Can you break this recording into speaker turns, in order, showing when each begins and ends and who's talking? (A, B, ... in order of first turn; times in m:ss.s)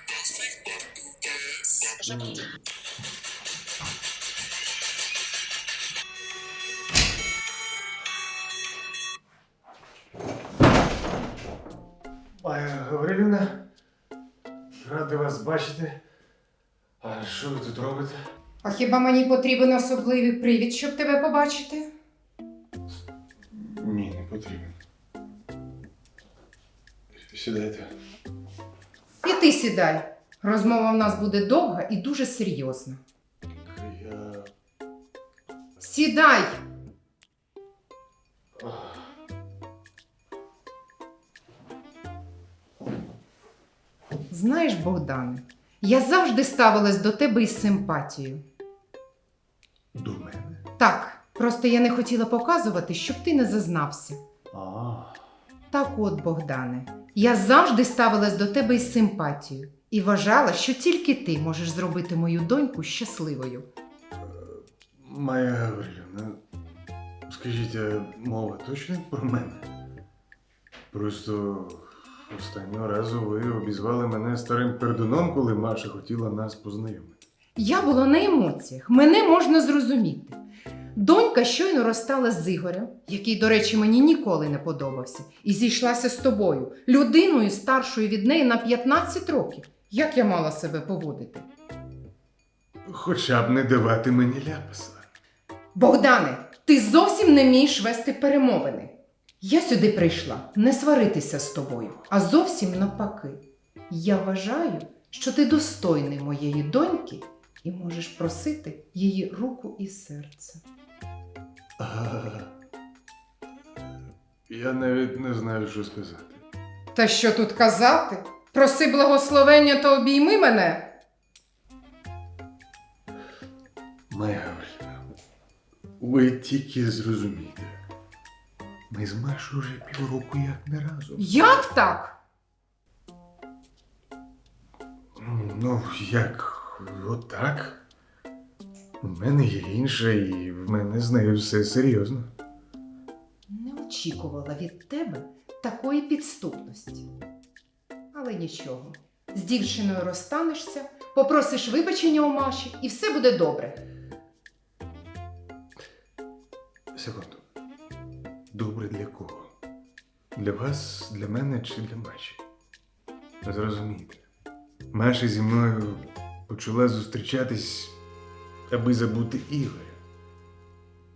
0:01.9-0:02.5 A
0:12.4-0:13.6 A
0:14.8-0:16.0 A
0:17.0-0:18.2 A
0:18.6-0:21.9 B
0:23.5-0:24.8 A
0:27.3-0:27.9 A
0:29.2-0:33.0 B
0:33.7-0:34.5 A
0:35.8-0:36.6 B
0:38.6-0:39.0 A
0:44.3-0:48.4 B
0:50.0-0:50.6 A
0:50.8-0:54.2 B
0:54.5-0:55.2 A
0:55.7-1:03.7 B
1:04.2-1:06.4 A
1:07.3-1:09.6 A
1:10.9-1:17.2 A
1:17.6-1:20.4 B
1:21.0-1:31.5 B
1:32.8-1:35.1 A
1:35.8-1:50.6 B
1:51.8-1:52.5 A
1:54.5-1:56.4 A
1:57.0-2:00.9 B
2:04.1-2:05.0 A
2:06.0-2:07.8 A
2:08.9-2:11.3 A
2:11.2-2:12.2 B
2:15.2-2:17.8 A
2:19.0-2:22.3 A
2:23.5-2:27.1 B
2:28.1-2:33.8 B
2:36.9-2:37.4 A
2:38.5-2:39.5 A
2:40.4-2:42.4 A
2:43.4-2:44.2 A
2:44.9-2:48.0 A
2:48.7-2:50.0 A